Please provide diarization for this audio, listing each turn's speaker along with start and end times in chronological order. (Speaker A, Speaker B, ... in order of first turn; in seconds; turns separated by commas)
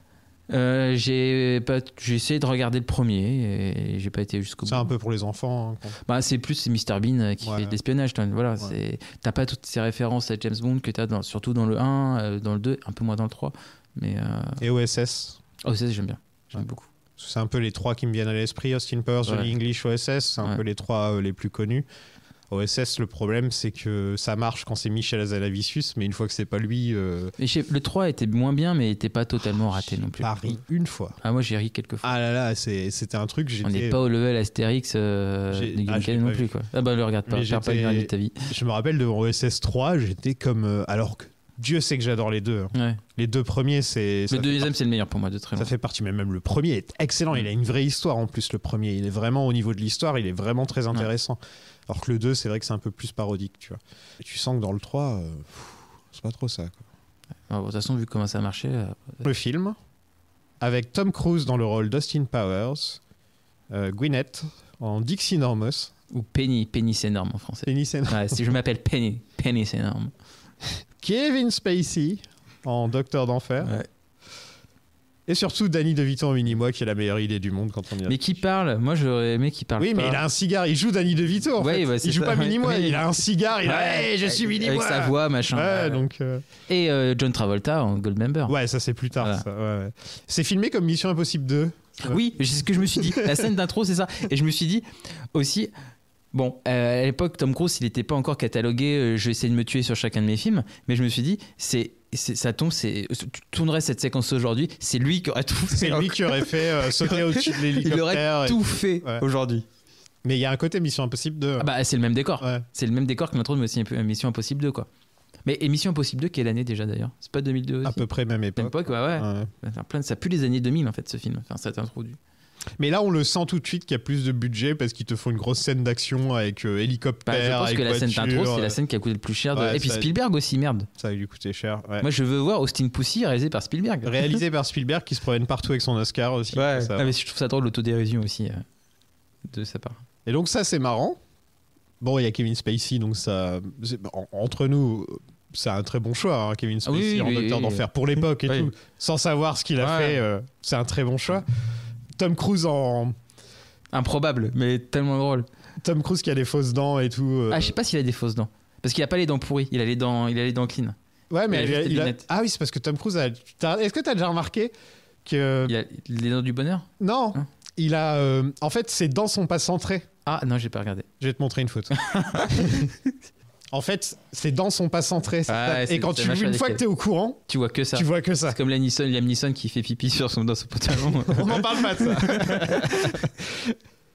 Speaker A: 0.5-4.9, Speaker B: 4.7-6.0, Speaker A: 6.1-14.6, Speaker B: 7.4-7.8, Speaker B: 14.6-15.4, Speaker A: 15.6-16.9, Speaker B: 17.2-21.9, Speaker A: 19.2-19.5, Speaker B: 22.5-27.3, Speaker A: 27.4-30.6, Speaker B: 29.8-31.2, Speaker A: 31.2-32.1, Speaker B: 32.0-34.0, Speaker A: 33.6-38.5, Speaker B: 35.5-36.5, Speaker B: 37.3-44.7, Speaker A: 42.7-43.0, Speaker A: 44.3-45.7, Speaker B: 45.5-56.8, Speaker A: 57.5-59.2, Speaker B: 59.2-59.8, Speaker B: 60.6-63.0, Speaker B: 63.7-65.9, Speaker A: 66.1-70.1, Speaker B: 67.7-68.4, Speaker B: 71.0-73.7, Speaker B: 75.3-78.3, Speaker A: 78.1-80.2, Speaker B: 79.8-86.5, Speaker A: 81.6-86.0, Speaker A: 86.7-88.5, Speaker B: 88.5-92.2, Speaker A: 89.2-89.4, Speaker A: 92.0-95.7, Speaker B: 92.9-93.5, Speaker A: 96.3-109.6, Speaker B: 105.7-109.2, Speaker B: 110.2-111.7, Speaker A: 111.6-114.9, Speaker A: 115.5-118.0, Speaker B: 117.8-119.5, Speaker A: 118.5-122.2, Speaker B: 122.8-128.8, Speaker A: 127.3-130.9, Speaker B: 129.5-130.1, Speaker B: 131.0-132.1, Speaker A: 132.0-134.4, Speaker B: 134.0-137.1, Speaker A: 136.5-138.6, Speaker A: 139.5-140.0, Speaker B: 140.2-141.2, Speaker B: 142.0-151.4, Speaker A: 146.8-147.8, Speaker A: 148.4-148.7, Speaker A: 149.8-150.2, Speaker B: 152.2-153.1, Speaker A: 153.9-155.5, Speaker B: 155.8-157.8, Speaker A: 157.5-160.9, Speaker B: 161.3-164.7, Speaker A: 161.5-162.2, Speaker B: 165.2-165.8, Speaker A: 165.7-167.4, Speaker B: 167.0-170.1, Speaker A: 170.2-171.1, Speaker B: 171.2-172.9, Speaker A: 172.1-172.9, Speaker B: 173.7-177.4, Speaker A: 175.5-176.8, Speaker A: 177.5-183.3, Speaker B: 177.9-178.6, Speaker B: 181.3-183.8